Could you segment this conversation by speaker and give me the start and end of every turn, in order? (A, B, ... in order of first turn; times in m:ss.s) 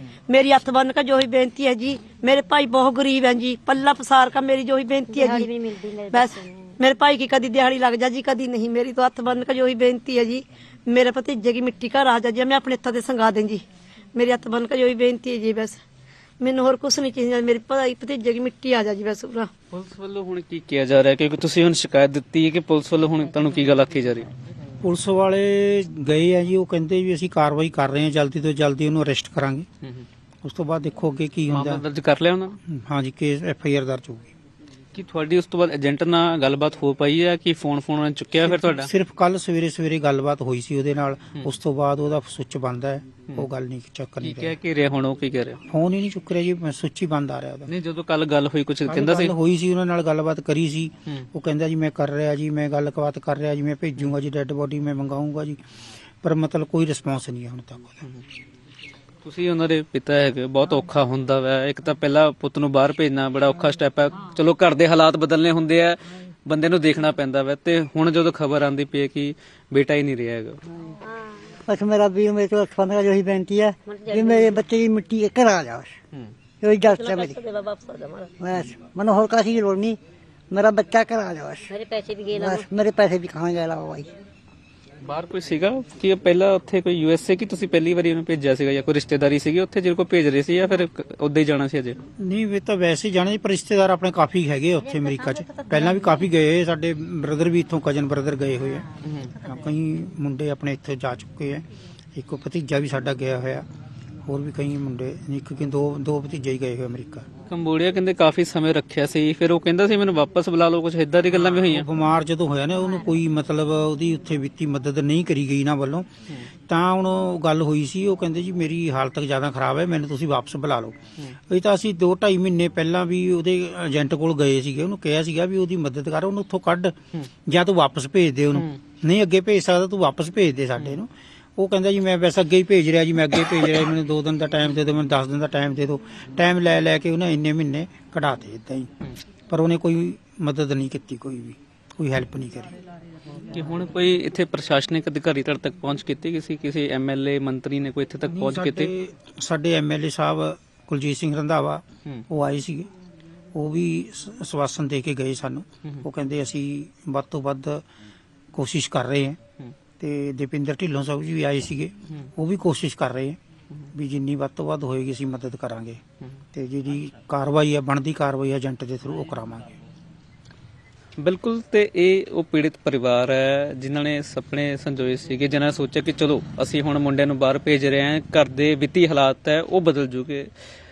0:00.3-0:05.5 A
0:05.1-0:06.7 B
0:06.1-0:13.6 A
0:14.2-0:15.8 A
0:16.4-0:19.5 A
0:19.7-0:24.3 C
0:24.8-0:29.7 D
0:30.4-0:31.8 D
0:31.5-0:32.6 C
0:32.7-0:34.3 D
0:34.9-0:38.9 C
0:38.4-0:44.6 D
0:44.2-0:45.6 C
0:45.7-0:47.7 D
0:47.7-0:49.3 C
0:48.9-0:55.6 D
0:56.2-0:58.0 D
0:59.2-1:10.6 C
1:11.0-1:11.4 B
1:11.7-1:16.0 E
1:13.8-1:14.6 B
1:16.6-1:17.4 E
1:16.9-1:18.3 A
1:18.4-1:20.0 E
1:20.5-1:21.7 E
1:21.7-1:22.7 B
1:22.4-1:24.1 E
1:25.0-1:32.0 C
1:32.2-1:43.7 D
1:39.0-1:39.4 C
1:44.3-1:47.3 D
1:47.5-1:51.8 C
1:51.3-1:56.1 D
1:56.7-2:01.0 D
2:01.5-2:18.9 D
2:19.5-2:22.8 D
2:23.5-2:28.9 C
2:28.3-2:32.9 D
2:33.5-2:37.8 D
2:38.5-2:39.4 D
2:40.0-2:43.4 D
2:43.9-2:46.0 D
2:46.5-2:49.8 D
2:51.2-3:00.5 C